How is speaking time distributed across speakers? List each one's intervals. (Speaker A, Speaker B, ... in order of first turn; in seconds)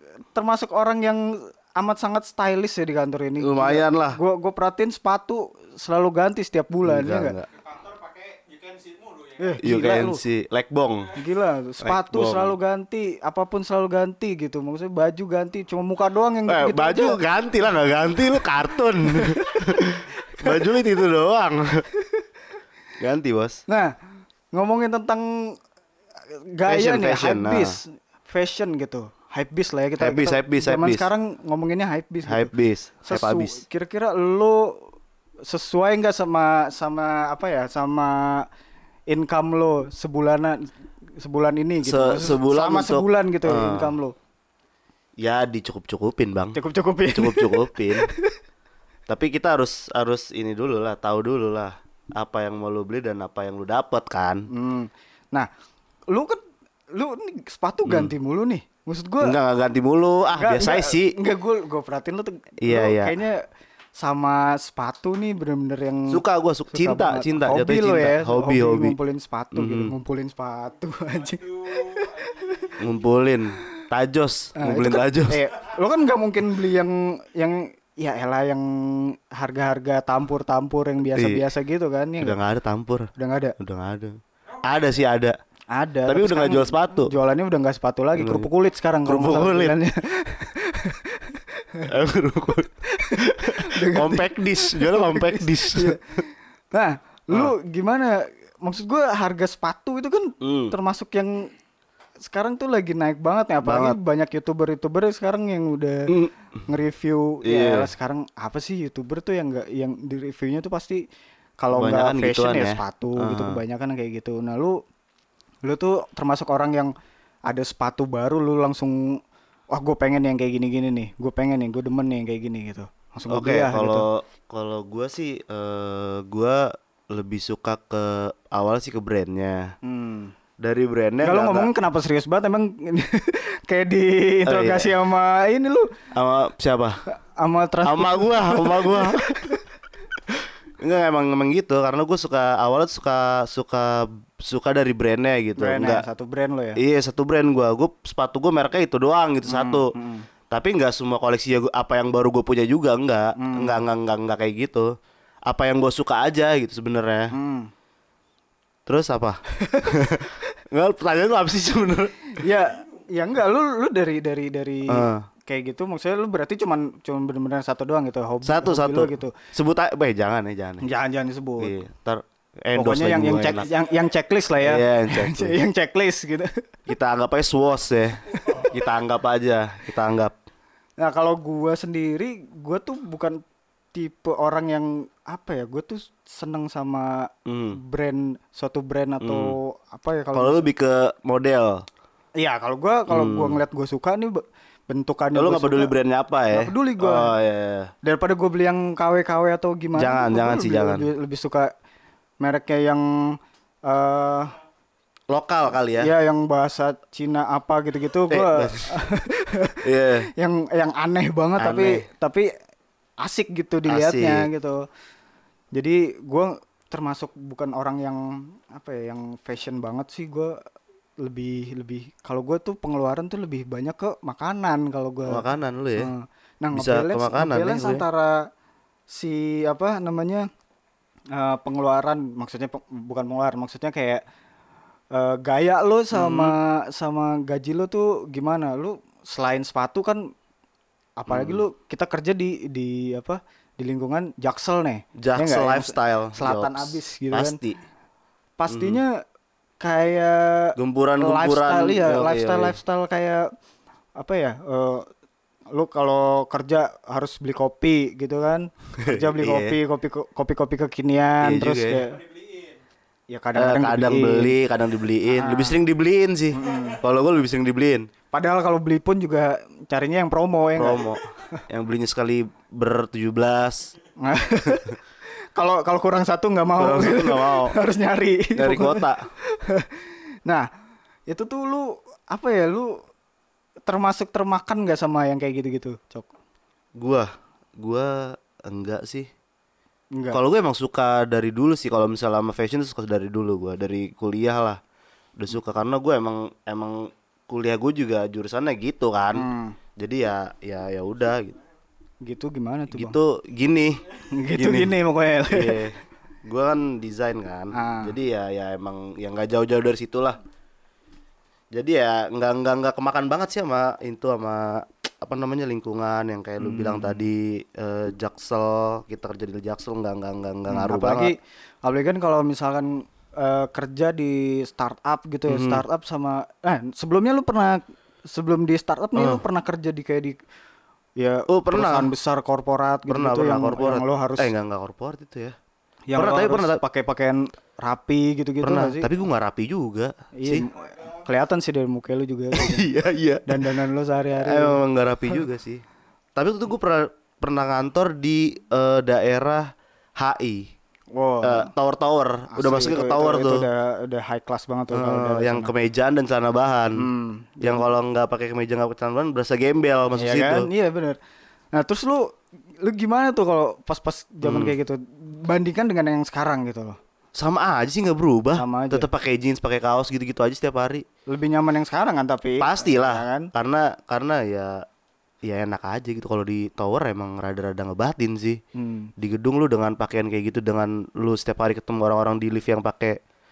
Speaker A: 0.3-7.3, 9.4-10.2, 11.2-17.2, 19.0-20.7, 21.9-22.2, 23.7-23.9, 24.5-25.5, 26.3-32.5, 33.0-34.9, 35.5-38.5, 39.1-44.1, 46.5-48.4, 54.5-55.5, 56.1-56.4, 56.9-59.4, 60.3-63.5, 64.0-72.7, 74.6-82.3, 83.2-83.5, 85.7-91.9, 92.9-96.0, 96.7-101.5, 102.2-106.1, 106.7-111.0, 111.6-114.8, 115.6-116.9, 117.5-119.2, 119.7-124.0, 129.8-130.3, 131.2-135.9, 137.2-139.6, 145.6-146.8, 149.5-150.3, 153.3-153.8, 157.3-157.7, 159.6-160.5, 162.3-169.3, 170.8-171.7, 172.7-176.6, 178.3-178.6, 181.0-183.4, 183.9-190.7, 192.4-195.9, 196.5-197.3, 198.0-201.7, 202.4-204.5, 205.9-212.5, 213.2-214.8, 215.7-220.6, 221.2-225.4, 226.0-228.5, 229.1-230.5, 231.3-234.2, 235.1-240.3, 241.2-247.6, 248.6-249.2, 249.8-253.5, 254.2-255.1, 255.7-262.2, 263.3-264.6, 265.3-265.8, 266.5-267.0, 268.3-271.6, 274.2-275.0, 275.5-280.7, 281.3-283.0, 283.9-286.3, 290.1-290.4, 299.3-299.8, 302.2-303.2, 304.3-305.8, 307.7-308.1, 316.6-317.2, 320.7-330.3, 331.2-334.5, 336.1-339.1, 340.4-342.9, 343.4-344.8, 351.1-351.7, 352.5-355.7, 356.9-357.9, 360.2-361.2, 361.7-367.0, 368.6-369.1, 371.3-373.5, 378.7-379.1
Speaker B: 3.4-4.2, 6.8-7.5, 9.6-11.1, 11.8-12.5, 16.5-21.8, 23.0-23.6, 26.6-27.8, 30.0-31.1, 32.2-33.6, 41.8-43.9, 45.2-48.1, 49.1-54.5, 57.9-58.1, 59.2-61.1, 62.6-63.1, 66.1-69.0, 69.5-69.9, 72.8-75.5, 81.1-81.4, 82.2-85.4, 86.0-87.1, 88.2-88.5, 89.0-89.7, 91.9-96.2, 100.4-100.7, 103.6-104.0, 107.4-107.9, 111.7-113.6, 123.3-129.7, 130.6-131.7, 134.4-134.9, 136.1-137.0, 137.8-139.6, 140.8-146.0, 146.8-149.9, 150.5-154.9, 155.4-157.3, 158.8-162.4, 164.9-165.2, 168.4-170.9, 171.6-173.7, 174.6-175.6, 176.9-180.3, 187.4-187.8, 189.2-189.5, 190.3-191.8, 193.1-193.6, 195.3-197.9, 199.9-201.0, 205.3-206.1, 208.3-208.9, 209.8-210.3, 211.6-212.1, 213.9-214.5, 225.3-226.1, 226.7-228.1, 236.1-236.6, 241.3-241.6, 245.2-247.8, 248.7-249.0, 250.8-252.8, 259.0-259.8, 261.4-262.0, 263.5-268.1, 270.8-273.9, 276.8-277.8, 278.6-279.2, 287.0-289.3, 290.3-294.8, 295.4-301.6, 302.9-305.0, 305.5-310.4, 311.7-321.3, 325.5-325.8, 329.1-329.4, 331.5-332.1, 333.1-335.5, 336.1-336.8, 338.6-340.6, 342.5-343.8, 344.4-345.8, 346.3-350.7, 351.4-353.6, 354.9-357.1, 357.6-360.7, 364.4-364.7, 367.4-371.0, 372.6-374.8, 375.4-378.6, 379.2-383.2
Speaker C: 7.5-9.6, 71.0-73.1, 162.5-163.1, 173.3-174.2, 178.2-179.0, 262.0-262.8, 266.6-267.0, 340.6-341.4